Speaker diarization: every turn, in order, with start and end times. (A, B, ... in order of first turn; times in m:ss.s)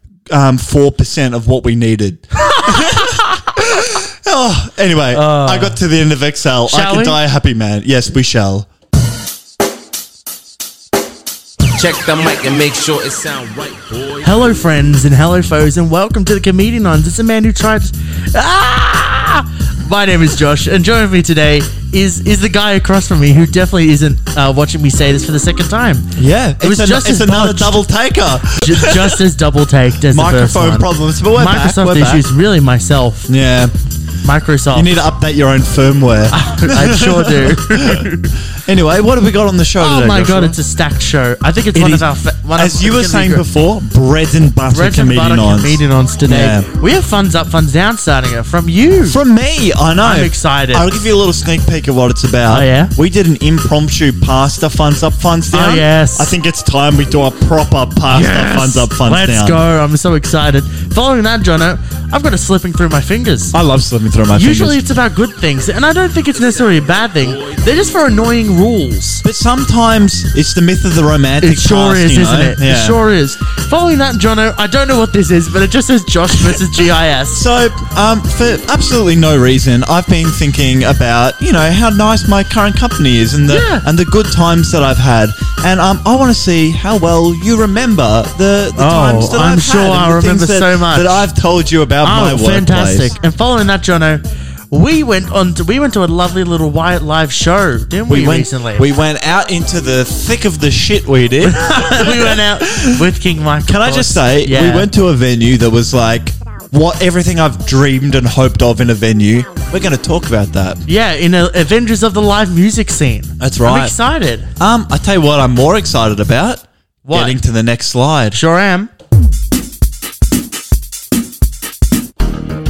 0:00.3-0:08.7 A
0:02.5-0:03.3 B
0:05.1-0:05.8 B
0:06.7-0:07.2 B
0:11.7-0:14.3 C
0:14.2-0:27.8 B
0:26.2-0:29.2 A
0:28.5-0:33.3 B
0:30.1-0:32.2 A
0:33.3-0:33.7 A
0:34.2-0:35.0 B
0:34.7-0:40.6 A
0:36.3-0:38.3 B
0:39.8-0:43.4 B
0:41.7-0:46.7 A
0:44.7-0:49.2 B
0:49.1-0:59.6 A
0:50.0-0:50.9 B
0:52.5-0:52.9 B
0:55.5-0:56.3 B
0:58.1-1:03.5 B
1:03.5-1:04.8 A
1:04.3-1:09.2 B
1:09.2-1:13.0 A
1:11.4-1:17.5 B
1:17.3-1:33.2 A
1:23.5-1:23.9 B
1:28.8-1:31.3 B
1:32.0-1:38.9 B
1:38.1-1:43.0 A
1:41.4-1:44.9 B
1:43.7-1:50.8 A
1:50.9-1:54.5 B
1:53.4-1:54.0 A
1:54.6-1:58.4 A
1:57.0-1:57.4 B
1:58.3-1:58.9 B